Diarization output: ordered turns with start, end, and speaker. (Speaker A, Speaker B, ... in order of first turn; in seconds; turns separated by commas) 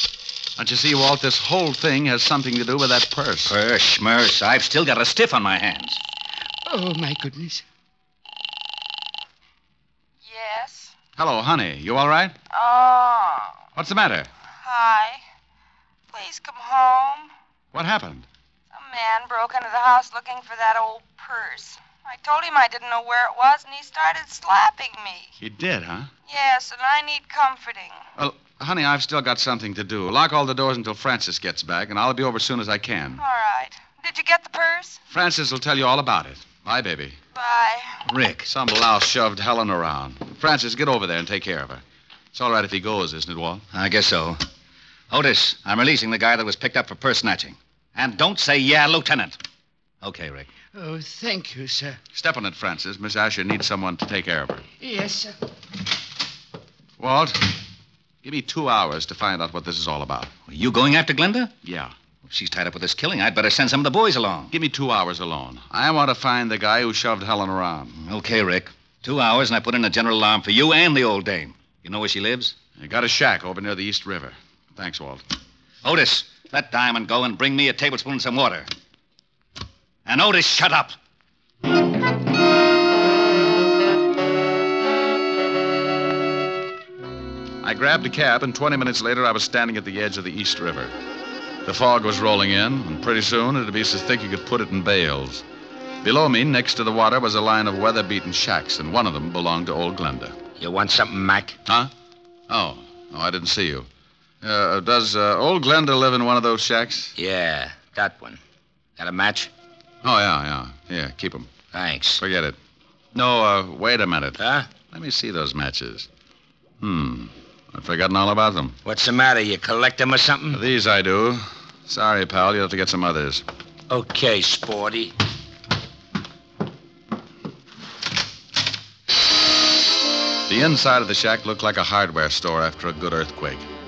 Speaker A: 0.6-3.5, Speaker B: 3.5-6.0, Speaker C: 6.7-7.6, Speaker D: 10.2-10.9, Speaker A: 11.2-12.3, Speaker D: 12.5-13.6, Speaker A: 13.8-14.3, Speaker D: 14.6-15.2, Speaker D: 16.1-17.3, Speaker A: 17.7-18.3, Speaker D: 18.7-25.3, Speaker A: 25.4-26.1, Speaker D: 26.3-28.0, Speaker A: 28.2-33.2, Speaker D: 33.2-35.0, Speaker A: 35.1-37.2, Speaker D: 37.4-38.0, Speaker B: 38.1-38.5, Speaker A: 38.5-41.8, Speaker A: 42.3-43.6, Speaker B: 43.7-44.4, Speaker B: 45.1-49.4, Speaker B: 50.0-50.5, Speaker C: 50.7-52.0, Speaker A: 52.1-54.6, Speaker C: 54.8-55.3, Speaker A: 57.0-57.4, Speaker A: 58.2-60.3, Speaker B: 60.5-61.5, Speaker A: 61.6-61.9, Speaker B: 62.3-64.5, Speaker A: 64.5-68.0, Speaker B: 68.0-72.5, Speaker A: 72.8-75.2, Speaker B: 75.8-78.7, Speaker B: 80.1-81.0, Speaker A: 87.6-90.9, Speaker A: 91.7-95.4, Speaker A: 96.0-100.4, Speaker E: 100.6-101.6, Speaker A: 102.5-103.9, Speaker A: 104.4-107.1, Speaker E: 107.2-108.4, Speaker E: 109.0-109.5, Speaker A: 110.0-111.5, Speaker E: 111.7-112.2, Speaker A: 112.2-112.6, Speaker A: 113.1-114.4, Speaker E: 114.4-114.7, Speaker A: 114.9-116.1, Speaker A: 116.8-118.8, Speaker E: 118.8-120.6, Speaker A: 120.5-123.4, Speaker E: 123.9-125.1, Speaker A: 130.5-133.7